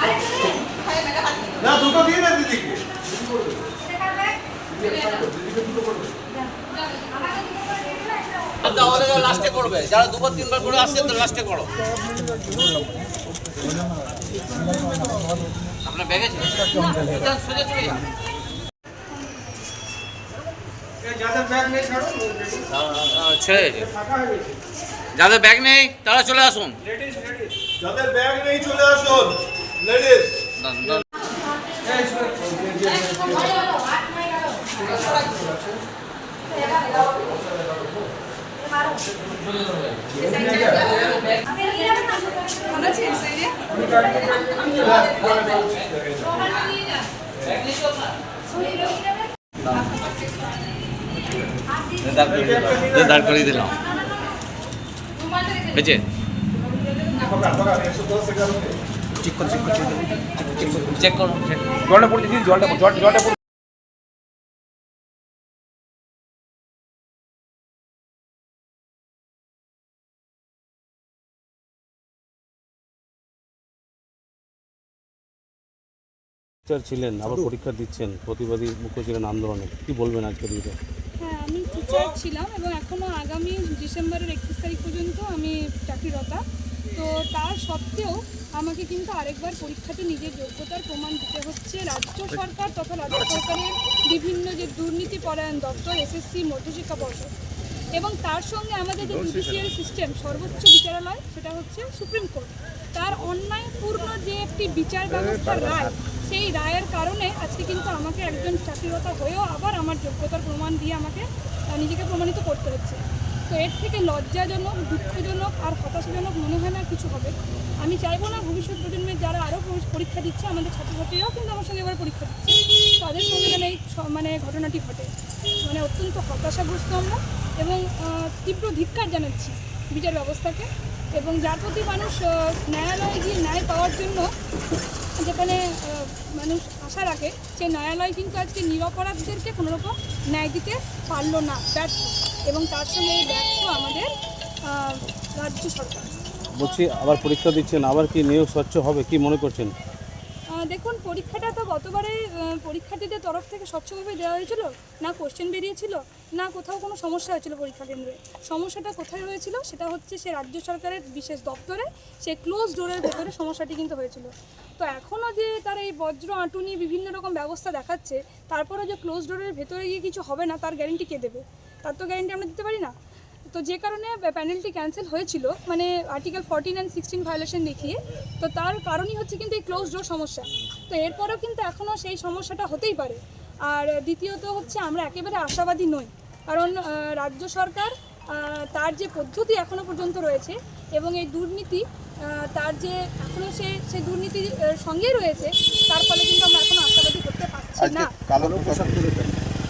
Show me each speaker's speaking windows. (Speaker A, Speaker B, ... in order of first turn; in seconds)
Speaker A: 1.6-2.8, 4.9-5.7, 21.3-22.2, 27.8-30.4, 32.9-33.4, 40.2-40.8, 57.7-58.6, 197.8-199.3
Speaker B: 8.6-11.7, 15.8-18.0, 22.8-24.0, 25.1-27.3, 30.6-31.0, 44.6-45.6, 52.0-53.8, 55.7-56.0, 59.2-63.4
Speaker C: 41.4-44.3, 81.2-97.3, 97.9-125.1, 125.6-134.3, 135.2-144.1, 144.7-146.1, 150.5-172.9, 173.5-198.1
Speaker D: 76.7-80.8, 146.5-149.7